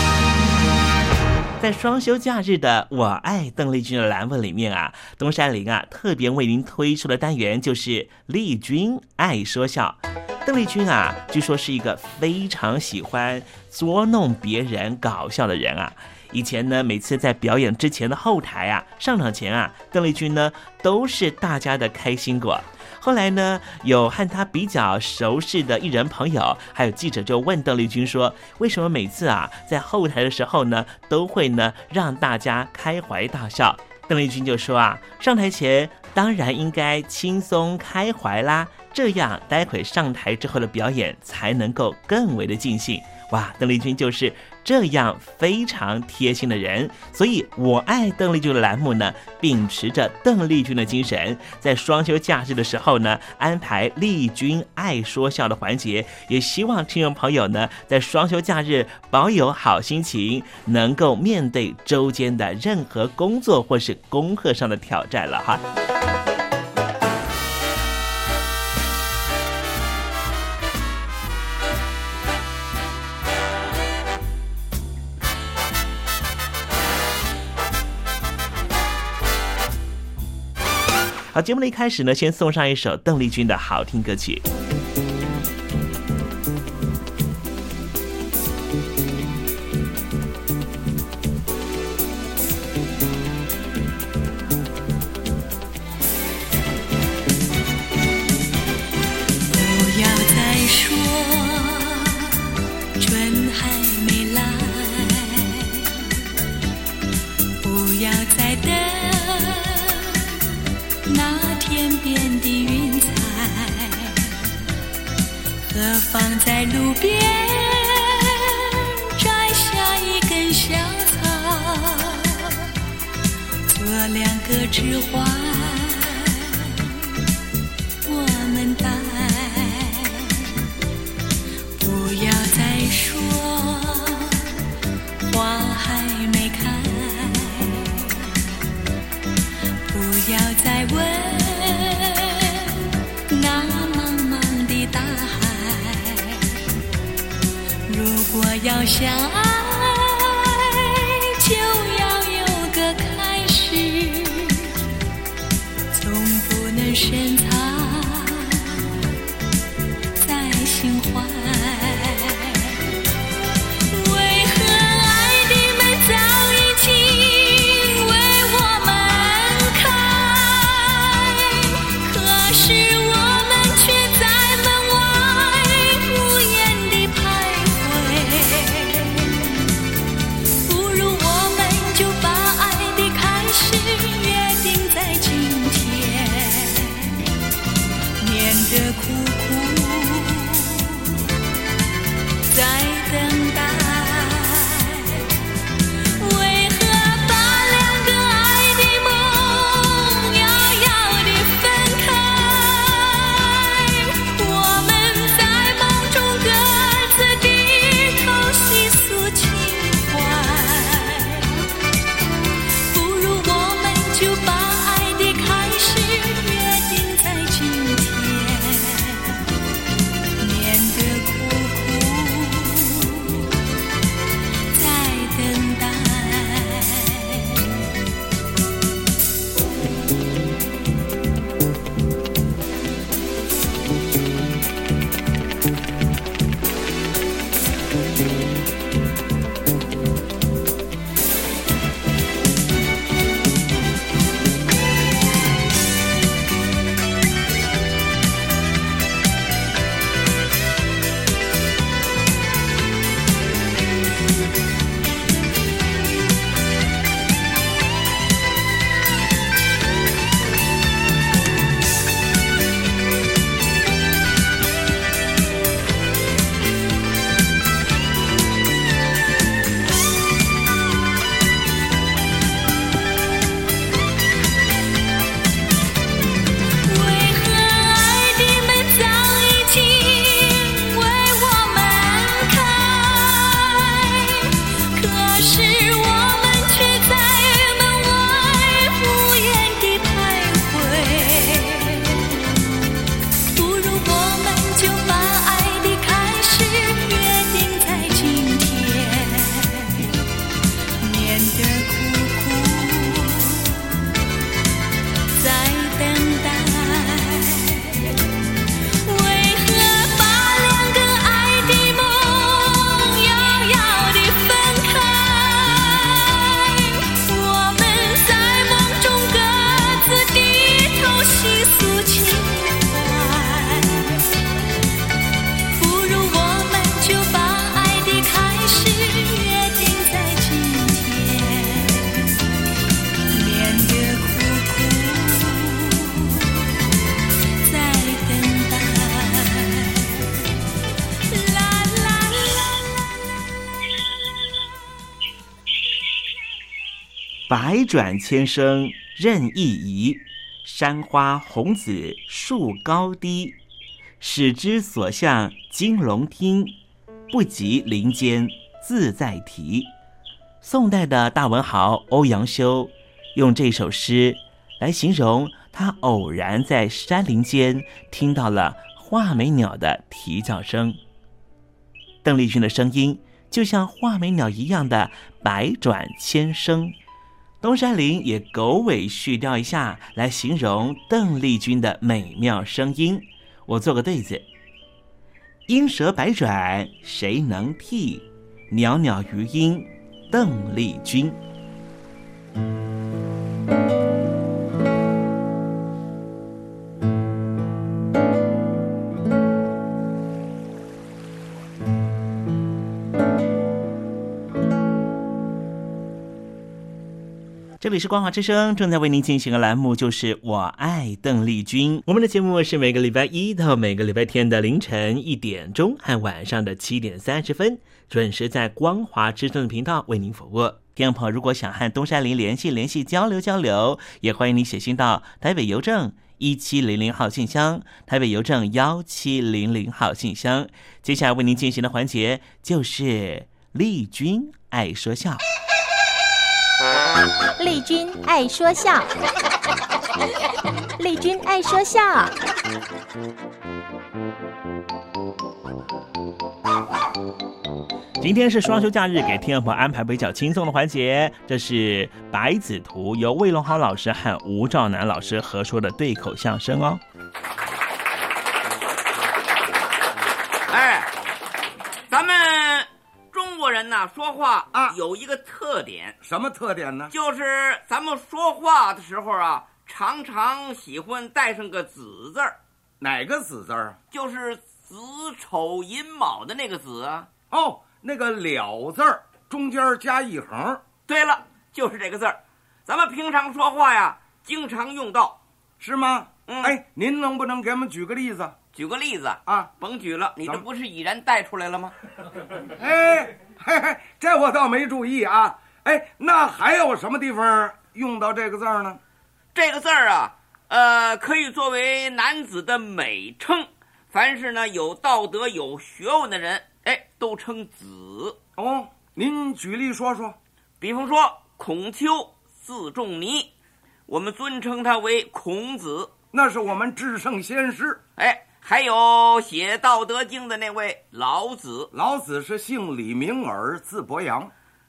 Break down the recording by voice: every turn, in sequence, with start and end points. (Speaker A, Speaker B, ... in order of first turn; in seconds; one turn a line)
Speaker A: 1.6-65.6
Speaker A: 81.3-84.4
Speaker B: 99.5-102.4
Speaker B: 103.0-106.2
Speaker B: 107.6-110.4
Speaker B: 111.1-114.5
Speaker B: 115.7-122.7
Speaker B: 123.7-127.0
Speaker B: 128.1-130.7
Speaker B: 131.8-134.6
Speaker B: 135.3-138.5
Speaker B: 139.9-146.6
Speaker B: 147.9-154.8
Speaker B: 155.9-159.0
Speaker B: 160.2-162.9
Speaker B: 163.9-179.6
Speaker B: 180.7-187.2
Speaker B: 188.2-191.3
Speaker B: 192.5-195.4
Speaker B: 196.2-211.6
Speaker B: 212.9-219.4
Speaker B: 220.4-223.6
Speaker B: 224.7-227.8
Speaker B: 276.9-292.4
Speaker B: 293.5-300.1
Speaker B: 301.0-304.1
Speaker B: 305.3-308.2
Speaker B: 309.0-324.3
Speaker B: 325.7-332.4
Speaker B: 333.3-336.8
Speaker B: 337.6-340.3
Speaker B: 341.3-342.8
Speaker A: 347.5-353.6
Speaker A: 354.2-356.8
Speaker A: 357.3-359.9
Speaker A: 360.6-371.0
Speaker A: 372.2-376.9
Speaker A: 377.6-384.4
Speaker A: 385.7-391.4
Speaker A: 407.8-435.4
Speaker C: 437.6-439.1
Speaker C: 441.0-442.3
Speaker A: 448.2-457.0
Speaker D: 460.7-461.1
Speaker D: 462.1-466.2
Speaker E: 466.2-467.1
Speaker D: 467.1-472.6
Speaker E: 473.0-474.0
Speaker D: 474.1-477.3
Speaker E: 477.5-480.8
Speaker D: 481.1-485.4
Speaker E: 485.8-488.6
Speaker D: 486.5-486.8
Speaker D: 488.7-491.9
Speaker E: 492.7-499.0
Speaker D: 499.5-508.4
Speaker E: 508.6-510.4
Speaker D: 510.8-513.5
Speaker D: 514.1-516.1
Speaker E: 516.3-518.0
Speaker D: 518.2-521.9
Speaker E: 521.9-524.5